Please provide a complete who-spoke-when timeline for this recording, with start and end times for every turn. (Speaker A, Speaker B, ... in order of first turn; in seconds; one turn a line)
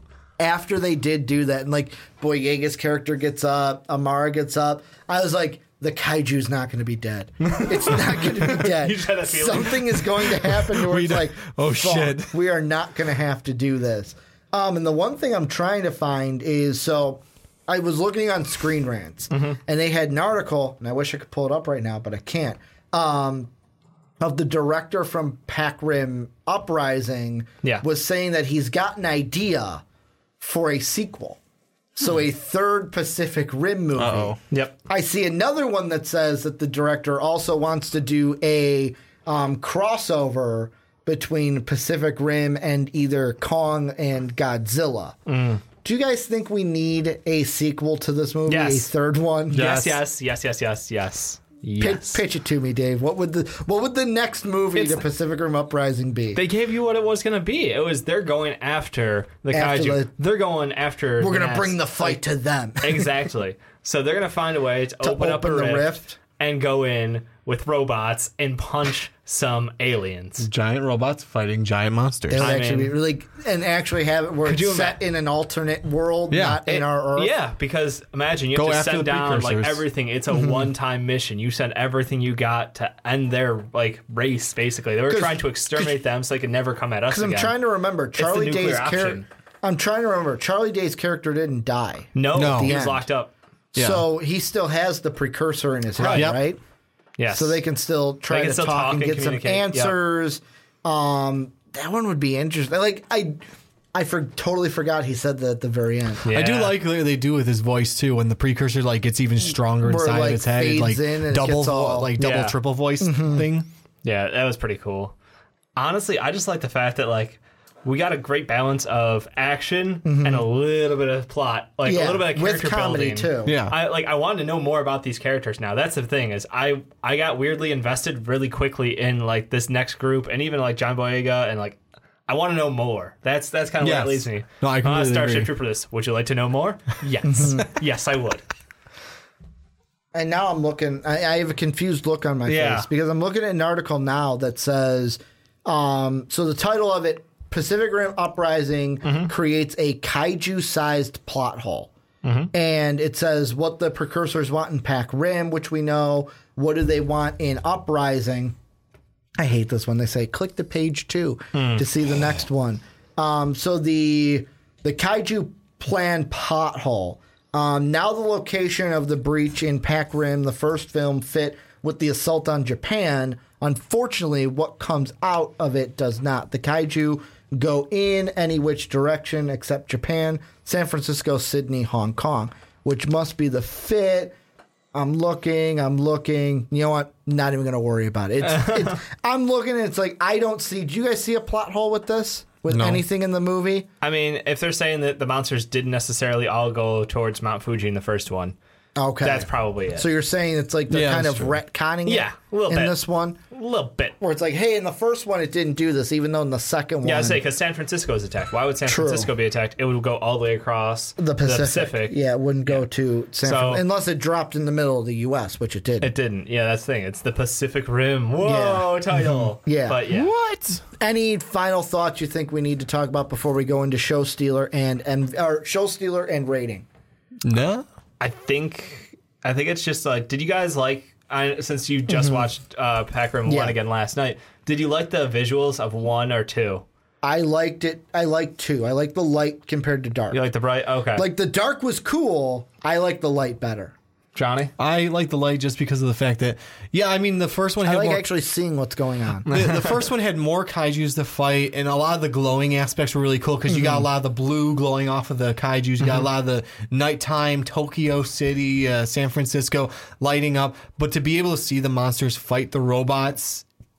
Speaker A: 0.4-23.5
Speaker B: 7.4-10.5
Speaker C: 10.7-12.3
Speaker B: 19.3-19.6
Speaker A: 24.2-29.8
Speaker A: 30.4-31.4
Speaker A: 32.0-45.2
Speaker C: 34.0-34.4
Speaker B: 34.5-34.8
Speaker B: 45.3-45.6
Speaker A: 45.8-49.9
Speaker B: 48.5-48.9
Speaker B: 49.5-52.2
Speaker C: 49.6-49.9
Speaker A: 51.8-56.4
Speaker B: 54.8-55.0
Speaker B: 56.4-62.2
Speaker A: 59.5-60.1
Speaker A: 61.2-63.1
Speaker B: 62.8-70.5
Speaker A: 65.0-66.2
Speaker C: 70.4-72.5
Speaker A: 72.3-77.3
Speaker B: 72.3-72.9
Speaker B: 74.5-75.0
Speaker C: 76.3-76.6
Speaker B: 76.7-87.5
Speaker C: 78.5-79.8
Speaker A: 80.4-80.7
Speaker A: 85.1-85.9
Speaker A: 87.1-93.1
Speaker B: 88.2-89.2
Speaker B: 92.2-93.3
Speaker C: 92.3-92.8
Speaker A: 93.7-96.6
Speaker C: 93.8-94.1
Speaker B: 96.0-96.3
Speaker C: 96.1-96.4
Speaker B: 97.2-97.6
Speaker A: 97.3-103.4
Speaker B: 98.3-100.0
Speaker A: 103.9-106.2
Speaker B: 106.2-106.8
Speaker C: 106.3-113.7
Speaker A: 109.8-112.1
Speaker B: 112.2-112.6
Speaker A: 113.0-113.5
Speaker B: 114.0-115.1
Speaker B: 115.8-138.4
Speaker A: 120.0-120.5
Speaker A: 121.8-123.6
Speaker C: 123.5-123.8
Speaker C: 133.8-135.5
Speaker A: 137.2-137.7
Speaker A: 140.1-151.9
Speaker B: 142.5-142.9
Speaker B: 149.0-149.3
Speaker B: 152.2-152.5
Speaker A: 152.5-158.6
Speaker A: 159.4-184.3
Speaker B: 161.5-161.8
Speaker A: 184.9-193.9
Speaker B: 188.4-189.0
Speaker C: 192.7-193.0
Speaker B: 194.0-198.6
Speaker A: 199.0-203.4
Speaker B: 199.2-200.1
Speaker C: 200.9-201.6
Speaker B: 202.1-204.2
Speaker A: 204.2-207.4
Speaker B: 207.0-212.8
Speaker A: 208.9-209.3
Speaker A: 211.2-216.1
Speaker B: 213.4-213.8
Speaker B: 216.0-220.3
Speaker A: 218.4-218.9
Speaker A: 219.7-220.0
Speaker C: 220.1-220.8
Speaker A: 221.0-226.8
Speaker C: 227.4-227.8
Speaker B: 228.2-236.8
Speaker A: 232.1-232.5
Speaker A: 233.5-233.8
Speaker A: 237.2-240.4
Speaker B: 240.3-241.3
Speaker A: 241.2-243.9
Speaker B: 244.3-244.7
Speaker C: 244.8-248.3
Speaker A: 247.8-249.5
Speaker B: 249.5-250.0
Speaker C: 249.5-263.6
Speaker A: 253.7-254.1